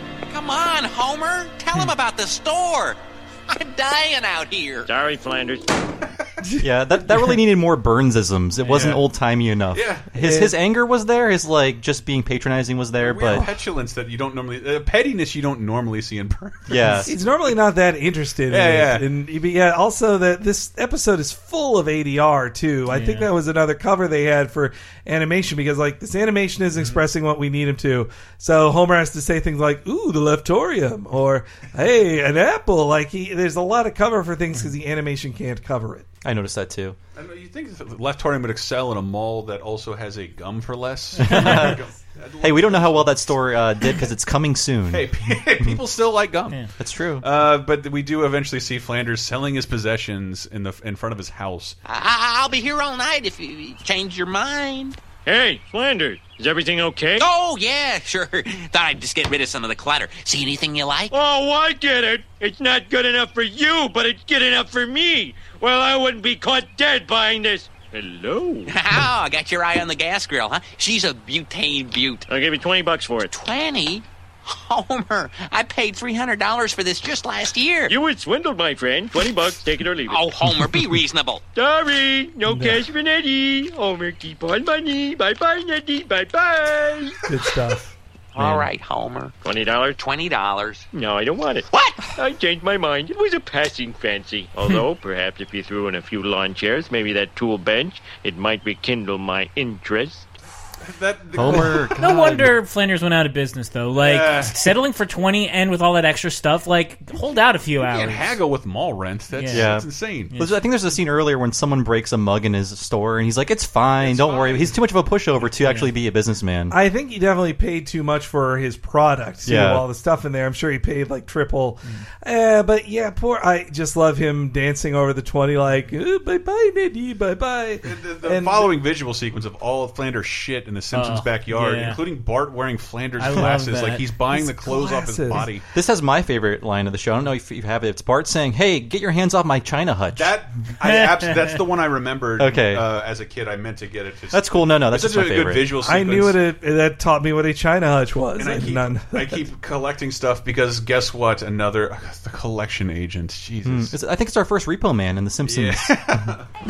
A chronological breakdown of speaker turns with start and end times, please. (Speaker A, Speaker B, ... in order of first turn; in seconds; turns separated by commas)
Speaker A: 0.2-4.9, Speaker B: 4.8-5.7, Speaker C: 6.4-6.7, Speaker D: 6.6-13.5, Speaker E: 8.7-9.0, Speaker E: 9.7-10.1, Speaker C: 10.2-10.5, Speaker E: 13.0-17.1, Speaker D: 16.7-17.1, Speaker C: 17.1-36.1, Speaker E: 18.5-19.1, Speaker F: 22.9-23.3, Speaker D: 36.2-37.0, Speaker E: 37.1-43.4, Speaker D: 41.2-41.9, Speaker D: 42.4-45.1, Speaker E: 44.9-46.6, Speaker D: 46.8-47.3, Speaker E: 47.2-51.8, Speaker A: 51.8-55.0, Speaker B: 55.2-57.2, Speaker A: 57.2-61.1, Speaker B: 61.1-68.7, Speaker A: 68.7-72.2, Speaker B: 72.3-73.3, Speaker A: 73.3-77.9, Speaker B: 77.9-80.3, Speaker A: 80.1-81.4, Speaker B: 81.5-87.2, Speaker C: 82.4-82.8, Speaker C: 87.3-87.9, Speaker A: 88.3-89.3, Speaker B: 89.4-90.0, Speaker A: 89.9-90.9, Speaker B: 90.9-100.3, Speaker A: 91.7-92.0, Speaker E: 100.8-102.4, Speaker D: 101.3-102.5, Speaker F: 101.5-108.4, Speaker E: 103.9-104.6, Speaker E: 107.8-110.3, Speaker F: 109.3-110.6, Speaker D: 109.5-116.8, Speaker E: 114.0-114.7, Speaker F: 115.6-115.9, Speaker C: 116.7-128.7, Speaker D: 119.4-119.8, Speaker E: 127.8-135.6, Speaker F: 130.9-132.0, Speaker F: 133.2-134.1, Speaker C: 134.3-135.5, Speaker D: 135.7-140.4, Speaker E: 140.1-146.4, Speaker F: 140.8-141.3, Speaker D: 142.4-142.9, Speaker D: 144.3-145.7, Speaker C: 145.8-149.4, Speaker E: 148.3-153.9, Speaker D: 153.6-156.3, Speaker E: 155.4-156.4